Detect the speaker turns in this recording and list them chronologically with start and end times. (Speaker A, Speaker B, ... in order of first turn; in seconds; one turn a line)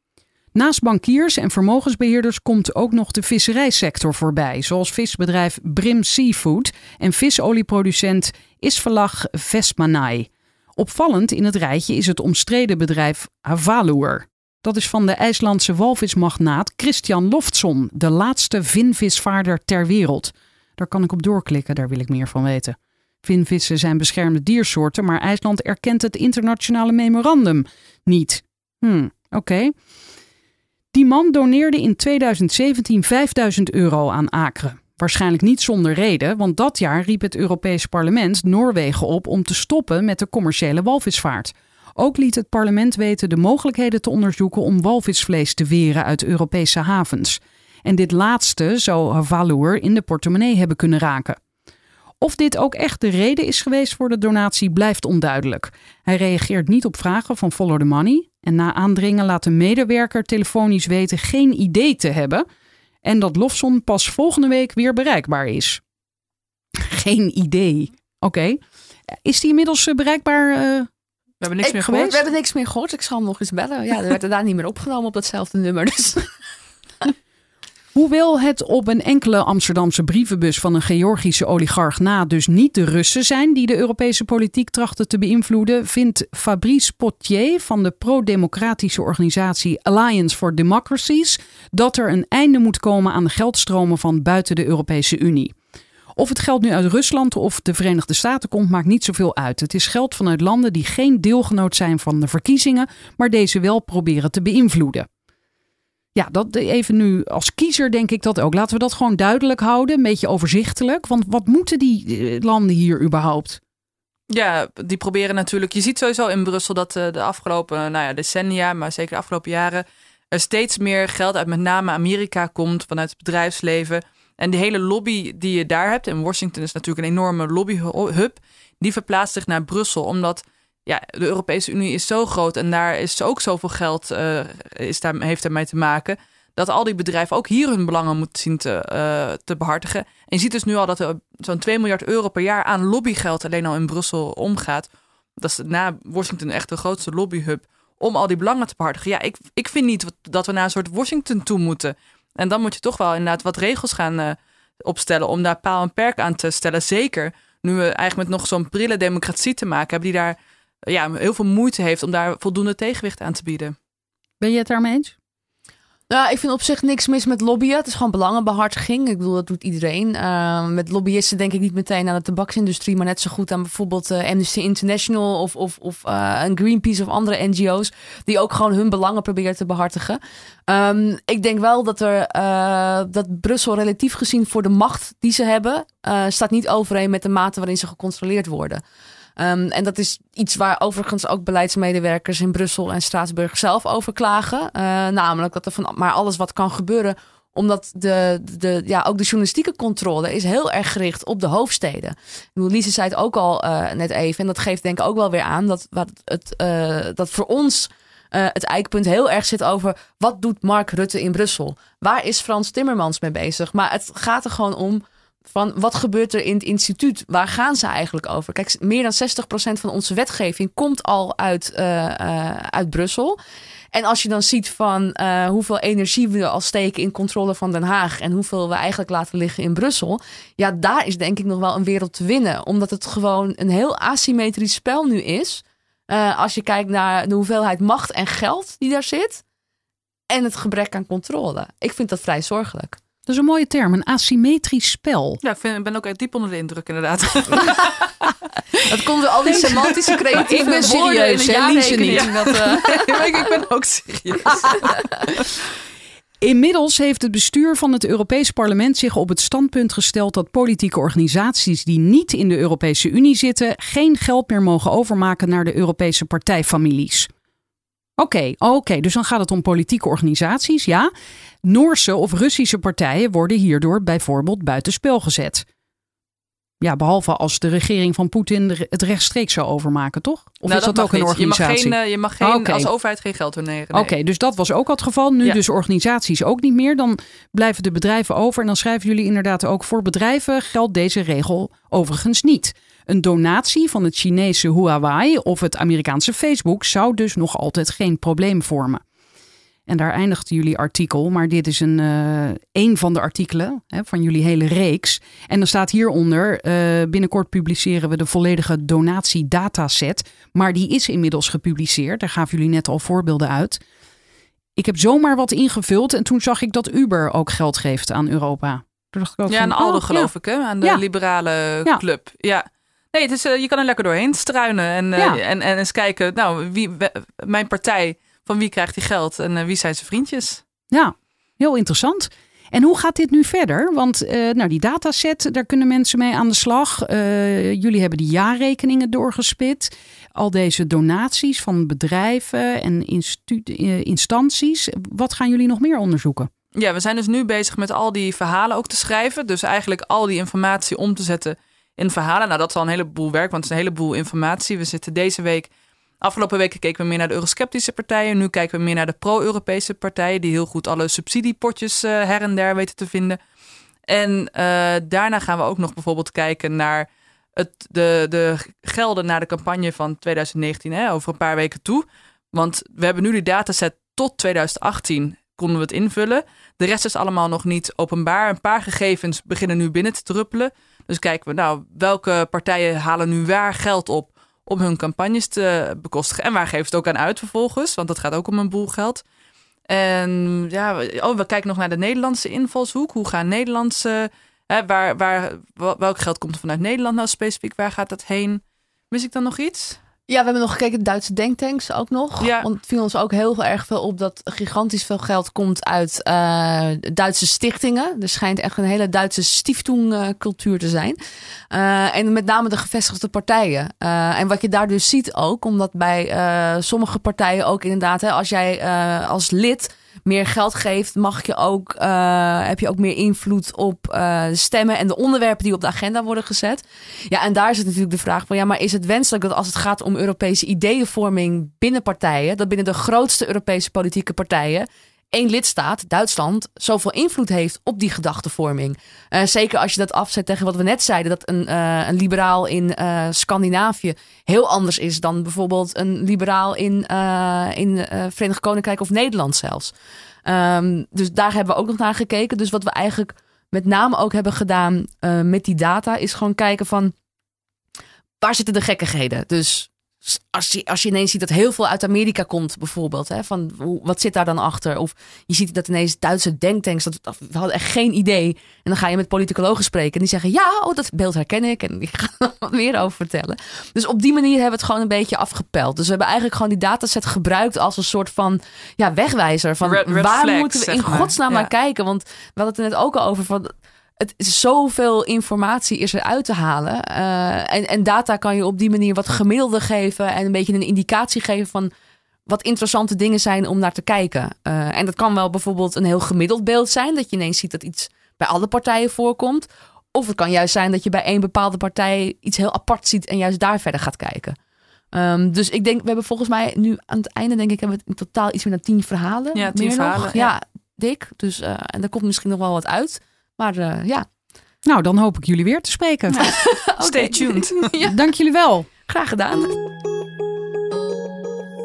Speaker A: 0.5-29.7
Speaker A: 30.9-51.4
Speaker A: 52.2-62.4
Speaker A: 63.0-65.8
Speaker A: 66.8-68.6
Speaker A: 69.2-70.9
Speaker B: 71.4-72.1
Speaker C: 71.6-76.3
Speaker A: 71.7-72.2
Speaker A: 77.9-95.5
Speaker A: 96.2-105.1
Speaker A: 106.1-113.6
Speaker B: 114.3-144.9
Speaker B: 145.4-163.7
Speaker A: 164.4-165.1
Speaker C: 166.1-188.8
Speaker C: 189.4-223.4
Speaker C: 223.9-239.4
Speaker C: 240.3-243.0
Speaker A: 243.3-245.4
Speaker B: 245.4-248.1
Speaker C: 248.8-253.5
Speaker B: 249.5-255.3
Speaker A: 250.3-252.3
Speaker A: 256.4-267.3
Speaker A: 268.2-271.1
Speaker A: 271.6-275.6
Speaker A: 276.8-282.9
Speaker B: 280.7-284.1
Speaker A: 283.9-299.0
Speaker A: 299.9-313.8
Speaker A: 314.8-320.3
Speaker B: 319.5-330.6
Speaker A: 330.9-346.5
Speaker B: 346.8-355.7
Speaker B: 356.2-363.4
Speaker B: 364.1-389.2
Speaker B: 389.9-400.0
Speaker C: 400.3-411.2
Speaker B: 402.4-402.7
Speaker C: 411.7-449.9
Speaker C: 450.4-457.1
Speaker C: 458.4-491.9
Speaker B: 479.8-481.7
Speaker C: 492.5-504.6
Speaker C: 505.1-514.2
Speaker B: 509.5-510.5
Speaker A: 514.9-516.4
Speaker B: 516.3-517.8
Speaker C: 516.4-518.2
Speaker A: 518.0-518.9
Speaker C: 519.1-519.8